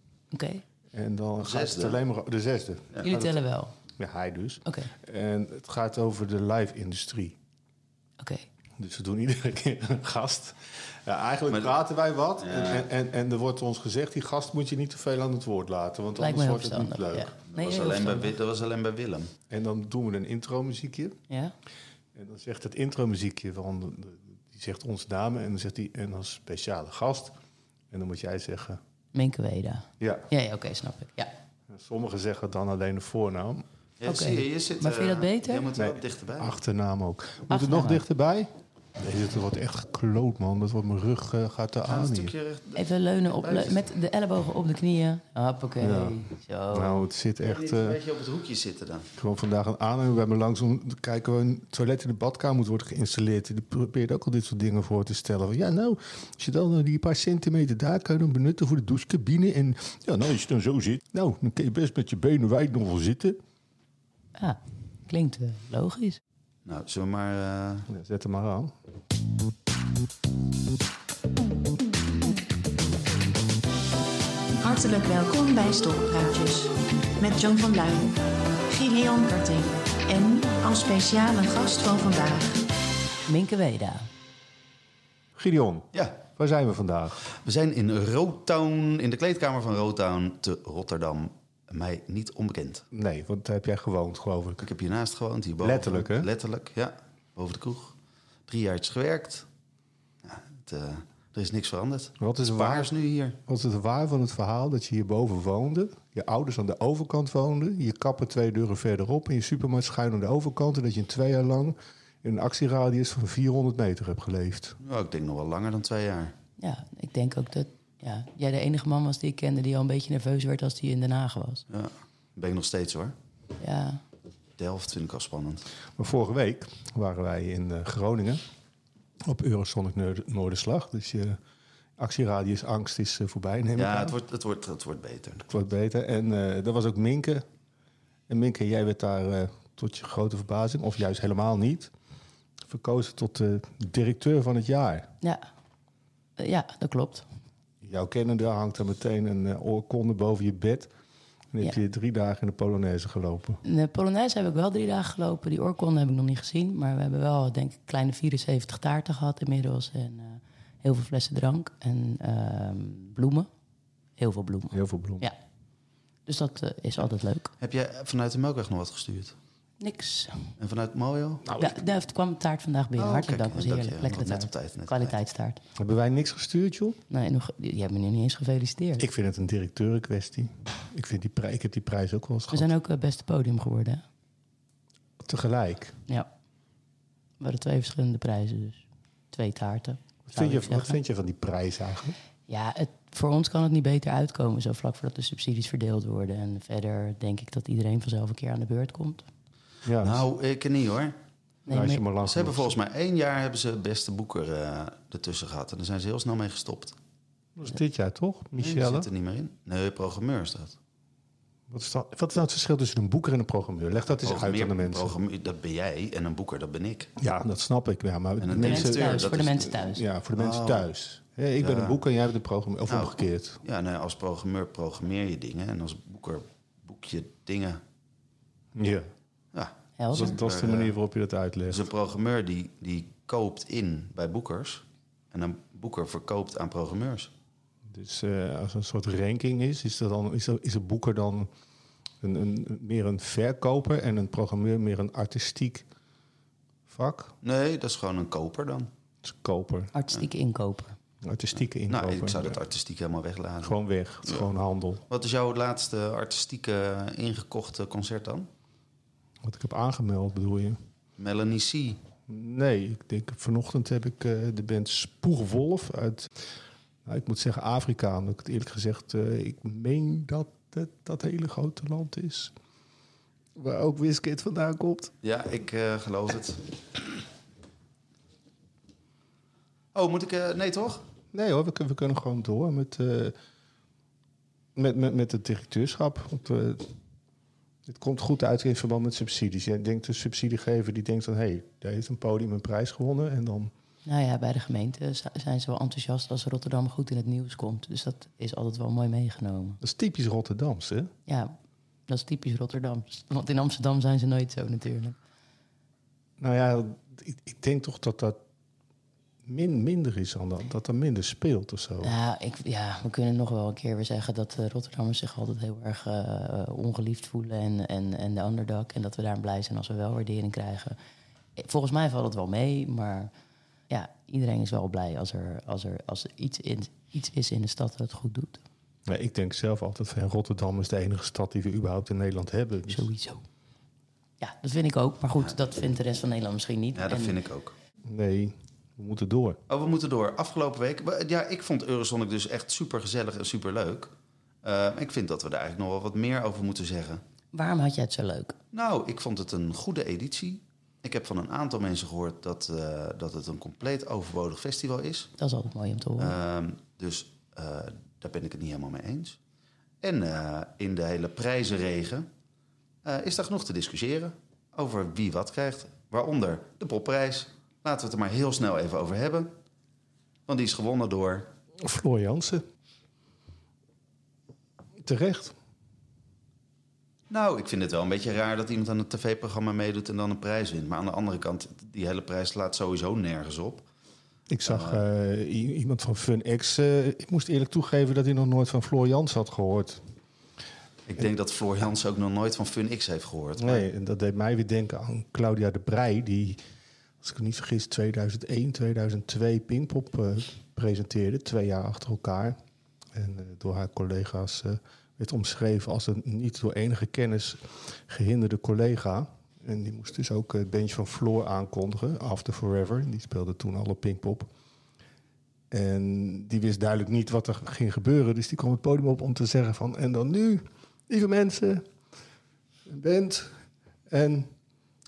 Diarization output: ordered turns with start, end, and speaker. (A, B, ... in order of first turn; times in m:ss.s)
0:00.3-0:00.6 A
0:00.9-0:03.3 B
0:01.4-0:02.0 C
0:03.0-0:03.7 A
0:04.0-0:07.4 B
0:04.6-0:04.9 A
0:08.2-0:08.5 A
0:08.8-0:17.3 B
0:11.5-0:11.8 C
0:12.4-0:12.9 C
0:16.2-0:18.3 A
0:17.5-0:19.3 C
0:19.5-0:21.2 B
0:22.1-0:27.3 B
0:27.9-0:28.8 B
0:29.1-0:31.3 A
0:30.0-0:30.3 B
0:31.7-0:33.6 B
0:34.0-0:36.6 C
0:34.0-0:35.7 A
0:35.8-0:42.3 B
0:37.5-0:38.0 A
0:41.9-0:43.8 C
0:42.8-0:47.0 A
0:45.8-0:48.0 B
0:47.4-0:49.1 C
0:49.1-1:03.4 B
1:04.4-1:06.2 A
1:06.6-1:07.9 C
1:07.9-1:08.7 B
1:14.6-1:22.6 D
1:23.3-1:24.1 A
1:25.4-1:27.2 B
1:25.9-1:26.2 C
1:27.2-1:32.8 C
1:32.9-1:34.6 B
1:34.6-1:38.0 C
1:35.6-1:36.3 B
1:38.5-1:39.5 C
1:40.2-1:43.4 C
1:42.2-1:42.9 B
1:43.4-1:54.8 B
1:54.8-1:56.4 C
1:56.6-2:01.6 A
2:01.7-2:03.1 C
2:03.6-2:04.0 A
2:04.6-2:05.6 C
2:06.0-2:08.4 B
2:09.2-2:11.4 B
2:12.0-2:14.2 B
2:13.7-2:15.5 C
2:15.5-2:17.4 B
2:18.3-2:21.9 B
2:22.7-2:25.1 B
2:26.4-2:27.2 A
2:27.8-2:30.9 B
2:31.5-2:33.6 B
2:33.6-2:43.5 A
2:44.2-2:45.3 A
2:44.7-2:45.3 B
2:46.3-2:47.5 A
2:47.6-2:49.4 C
2:49.8-2:50.5 A
2:50.6-2:51.4 C
2:51.4-2:51.8 B
2:51.6-2:55.6 A
2:53.0-2:55.2 C
2:55.8-2:57.0 B
2:57.1-2:59.0 A
2:59.0-3:02.7 B
3:02.5-3:04.0 A
3:05.2-3:06.0 B
3:07.4-3:08.8 A
3:09.3-3:11.0 A
3:10.3-3:12.1 B
3:12.5-3:19.2 A
3:19.8-3:20.2 B
3:20.0-3:21.2 C
3:21.7-3:22.0 A
3:21.7-3:22.7 B
3:22.2-3:27.0 C
3:27.6-3:29.1 B
3:28.6-3:30.8 C
3:31.7-3:35.1 B
3:34.2-3:37.1 C
3:37.2-3:43.6 B
3:38.4-3:39.7 C
3:38.5-3:40.0 A
3:40.4-3:40.9 C
3:41.6-3:42.0 C
3:42.9-3:47.8 C
3:48.8-3:49.1 B
3:49.5-3:50.9 C
3:50.0-3:50.4 A
3:50.1-3:51.9 B
3:51.7-3:57.3 C
3:57.9-4:01.5 B
4:02.2-4:05.8 B
4:06.9-4:07.3 B
4:07.4-4:08.9 C
4:09.2-4:09.9 B
4:09.9-4:11.0 A
4:11.2-4:12.6 B
4:11.9-4:14.5 C
4:13.6-4:15.0 B
4:15.1-4:18.5 C
4:19.4-4:20.8 B
4:21.2-4:22.0 C
4:22.3-4:26.3 B
4:27.0-4:32.5 B
4:33.6-4:35.1 B
4:35.2-4:37.0 C
4:39.9-4:41.0 C
4:41.3-4:43.4 B
4:44.8-4:46.9 B
4:47.8-4:53.7 B
4:54.0-4:59.8 A
4:59.8-5:01.1 B
5:01.3-5:01.5 A
5:02.1-5:05.2 A
5:06.4-5:08.4 B
5:09.4-5:12.1 B
5:12.0-5:21.0 A
5:21.6-5:23.3 A
5:23.9-5:28.6 A
5:29.1-5:33.1 B
5:32.9-5:33.4 A
5:34.4-5:37.4 A
5:36.9-5:37.7 C
5:38.0-5:39.6 B
5:39.7-5:47.2 C
5:47.5-5:48.6 A
5:48.7-5:55.3 C
5:55.4-5:56.4 A
5:56.2-5:59.4 C
6:00.0-6:02.3 C
6:03.0-6:09.5 C
6:10.5-6:11.5 C
6:11.8-6:12.6 B
6:15.0-6:15.5 B
6:17.3-6:23.9 C
6:24.5-6:30.0 B
6:24.6-6:25.0 C
6:31.1-6:33.8 C
6:33.6-6:36.6 B
6:37.2-6:42.6 B
6:43.1-6:54.5 B
6:55.7-7:01.8 B
7:02.9-7:03.5 B
7:04.1-7:04.5 B